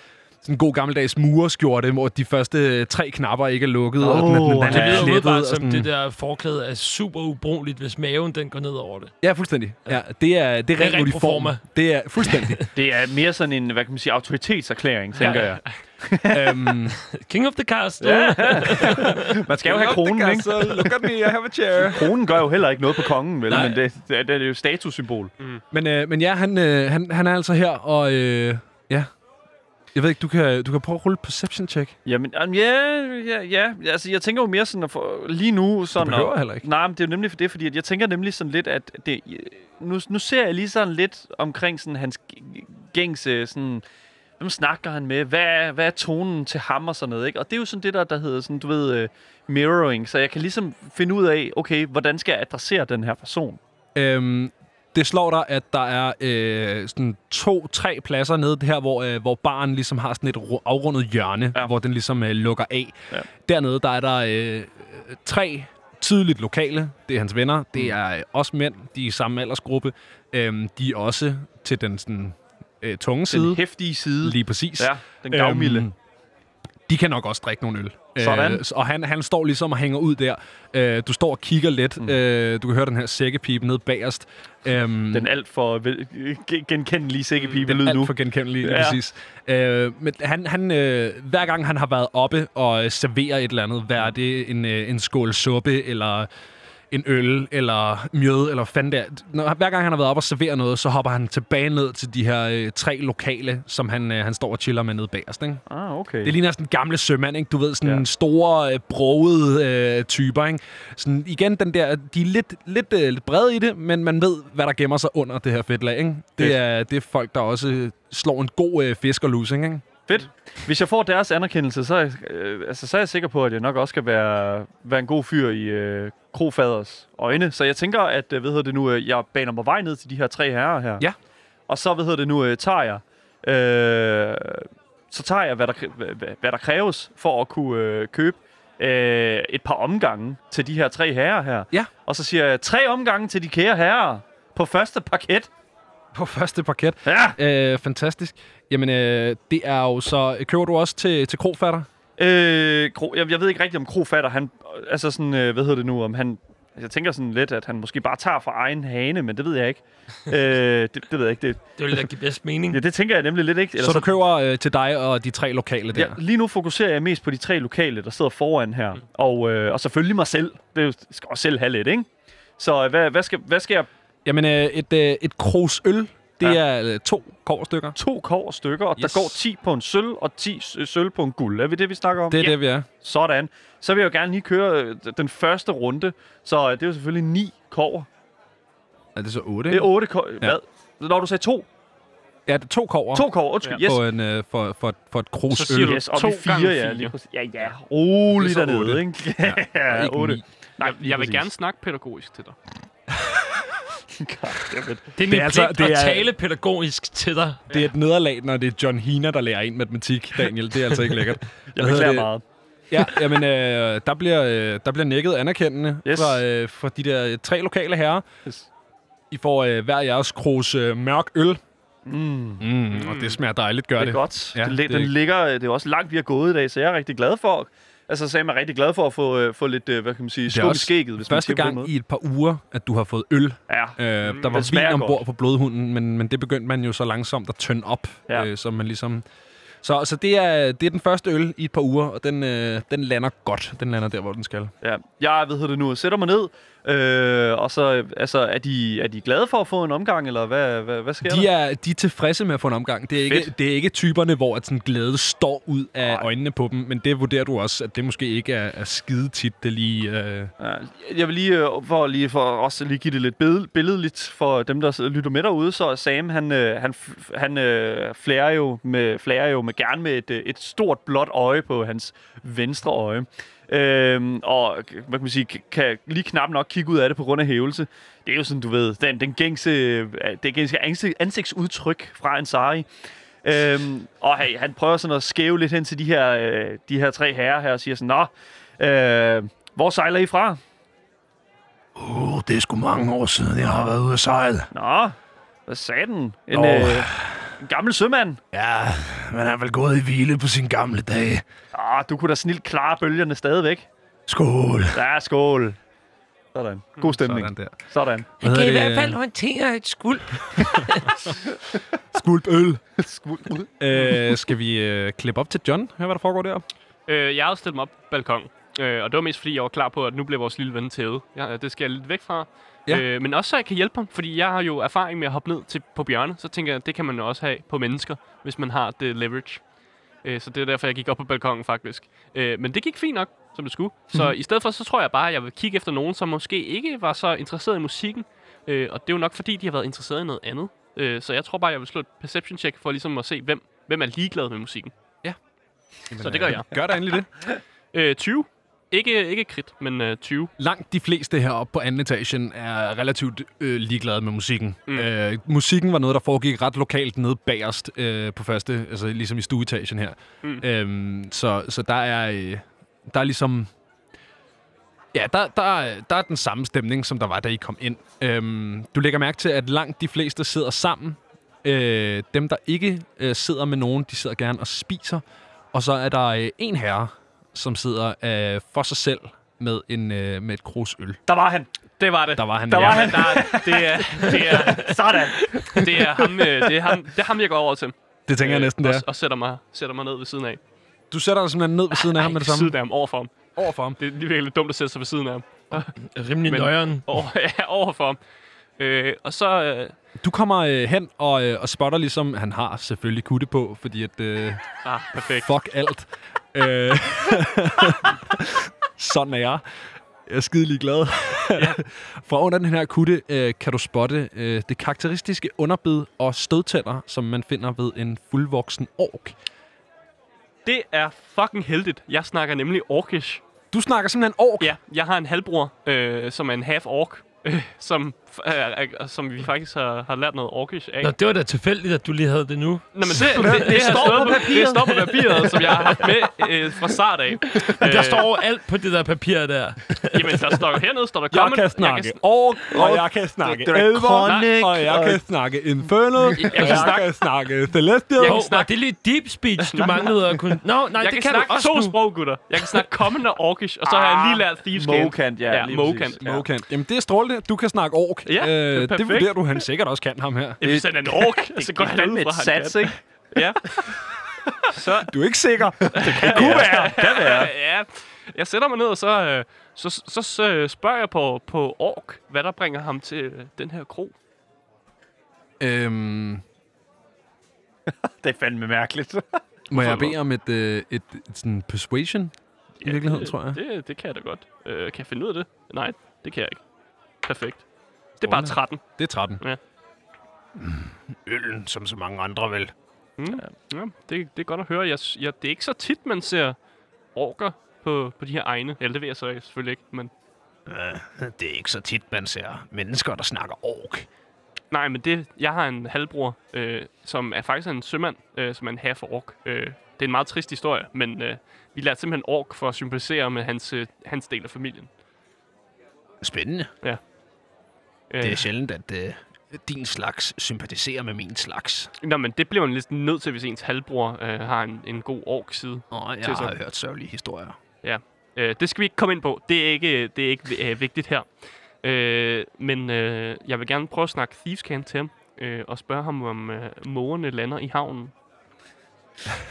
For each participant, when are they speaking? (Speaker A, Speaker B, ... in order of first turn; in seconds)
Speaker A: 0.4-5.9, 9.2-12.7, 16.3-17.0, 18.8-22.1, 23.5-23.8, 25.7-29.1, 29.9-31.9, 36.0-36.6, 54.0-73.6, 74.2-75.9, 76.9-85.3, 87.6-96.3, 96.9-105.6, 106.2-119.8, 146.1-151.9, 163.8-166.2, 174.2-178.0, 179.0-179.4, 182.3-182.9, 189.2-190.6, 192.5-193.2, 193.8-196.0, 198.3-200.4, 203.1-203.7, 205.3-206.3, 207.7-212.3, 212.9-218.2, 219.3-221.6, 222.6-225.1, 230.5-239.2, 239.8-244.7, 251.2-260.5, 291.9-294.7, 296.5-297.5, 298.5-301.4, 304.3-305.0, 307.2-307.8, 308.4-309.2, 310.5-310.9, 312.1-312.8, 313.8-316.6, 346.1-347.3, 350.6-363.7, 365.1-381.2, 382.4-383.5, 388.3-389.0, 391.1-392.8, 393.6-394.0, 400.2-404.6, 405.3-409.6, 410.2-419.3, 423.7-424.7, 433.1-434.3, 441.3-448.4, 456.2-460.6, 465.1-466.8, 475.6-476.4, 479.7-482.3, 482.8-483.6, 488.2-489.4, 490.6-492.7, 500.7-504.1, 516.2-516.7, 518.2-521.9, 525.9-527.6
Speaker B: 4.0-5.2, 12.7-16.8, 18.0-21.1, 21.9-25.3, 32.0-43.8, 44.4-53.6, 73.3-75.9, 78.2-78.6, 85.1-89.0, 105.7-106.3, 120.1-131.0, 131.7-145.5, 147.0-147.4, 152.2-162.0, 162.7-164.1, 165.9-173.9, 177.9-188.1, 189.7-191.7, 193.1-194.0, 195.7-201.4, 204.2-205.1, 211.7-212.4, 216.0-216.4, 222.1-222.6, 224.0-231.9, 233.7-234.0, 234.5-235.2, 244.8-251.5, 253.2-253.5, 256.0-256.3, 260.6-282.9, 283.4-290.6, 294.7-295.1, 295.7-298.4, 301.7-303.9, 304.9-305.8, 306.5-308.3, 313.0-314.1, 381.3-381.7, 382.7-386.7, 433.2-436.0, 442.7-445.2, 446.2-447.0, 453.8-456.4, 460.6-463.0, 465.8-467.5, 477.9-479.4
Speaker C: 4.7-9.1, 10.8-11.6, 12.2-12.6, 17.0-19.3, 161.8-162.8, 205.1-207.6, 308.4-311.2, 395.9-397.0, 431.0-434.5, 435.3-436.3, 437.5-440.7, 448.2-451.9
Speaker D: 15.2-15.7, 195.5-197.1, 200.8-202.6, 222.9-223.4, 234.2-234.7, 317.1-329.6, 330.2-344.9, 346.2-346.7, 347.9-350.5, 382.0-390.6, 391.9-395.9, 396.4-398.2, 398.8-399.9, 404.8-405.5, 420.6-423.4, 424.6-431.1, 432.9-438.3, 440.1-442.2, 444.2-444.5, 446.3-447.0, 448.2-448.7, 449.6-450.0, 451.0-456.4, 458.2-459.4, 460.6-464.0, 464.7-465.1, 465.9-474.1, 479.7-480.1, 482.8-486.6, 487.2-487.6, 488.2-488.8, 493.2-496.6, 497.1-500.1, 504.7-514.9, 518.1-518.4, 522.0-526.5, 527.8-531.2, 531.8-538.1